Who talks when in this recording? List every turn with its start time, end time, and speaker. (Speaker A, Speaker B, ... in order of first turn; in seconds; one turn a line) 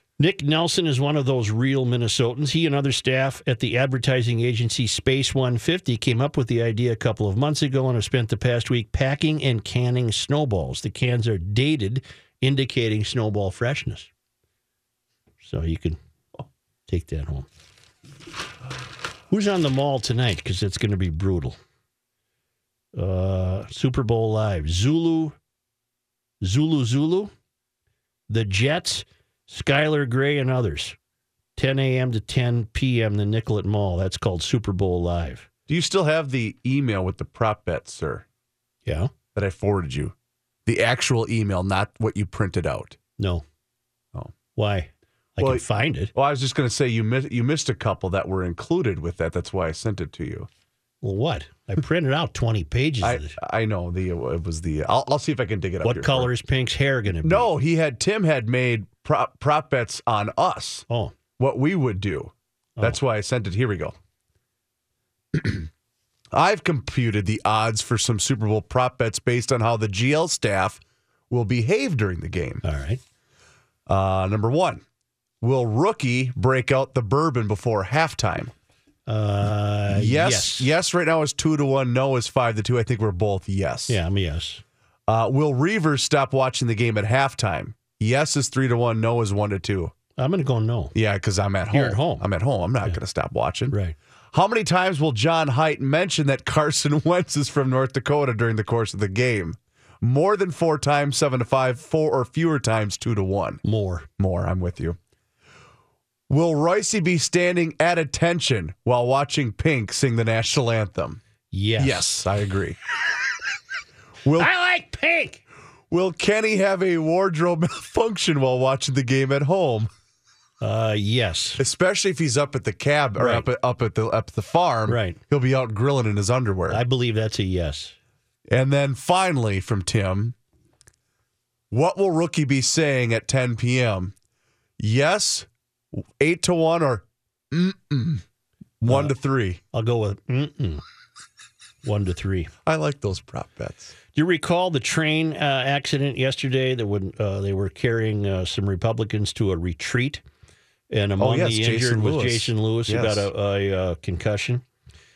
Speaker A: 0.2-14.1
Speaker A: 15.4-16.0
Speaker A: 16.9-17.5
Speaker A: 19.3-21.6
Speaker A: 22.9-25.4
Speaker A: 26.4-27.3
Speaker A: 28.3-31.0
Speaker A: 31.6-35.5
Speaker B: 35.7-38.2
Speaker B: 39.4-40.1
Speaker B: 40.7-43.0
Speaker A: 43.2-43.4
Speaker A: 44.5-46.1
Speaker B: 45.4-50.5
Speaker A: 51.0-53.4
Speaker B: 53.0-56.3
Speaker A: 55.8-57.5
Speaker B: 57.2-60.9
Speaker A: 60.9-61.1
Speaker B: 61.4-64.0
Speaker B: 65.3-65.7
Speaker B: 66.3-72.6
Speaker A: 72.6-73.0
Speaker B: 73.9-74.8
Speaker B: 75.4-78.5
Speaker A: 79.1-80.7
Speaker B: 79.9-84.0
Speaker A: 83.9-84.6
Speaker B: 85.1-89.9
Speaker A: 90.2-90.9
Speaker B: 91.0-93.8
Speaker A: 91.7-92.3
Speaker A: 93.7-94.0
Speaker B: 94.3-103.6
Speaker A: 103.7-104.1
Speaker B: 104.2-105.0
Speaker B: 106.3-111.2
Speaker A: 111.5-112.2
Speaker B: 111.8-112.8
Speaker B: 114.2-114.5
Speaker A: 114.4-115.4
Speaker B: 115.9-119.9
Speaker A: 120.6-121.6
Speaker B: 121.6-126.8
Speaker A: 123.2-123.5
Speaker A: 124.9-125.2
Speaker A: 126.7-128.0
Speaker B: 128.5-130.4
Speaker B: 131.7-134.1
Speaker B: 134.8-138.2
Speaker B: 138.8-139.6
Speaker A: 138.9-139.1
Speaker A: 139.7-140.8
Speaker A: 141.8-142.5
Speaker B: 142.7-143.9
Speaker A: 144.1-150.2
Speaker A: 150.9-154.6
Speaker B: 151.2-153.3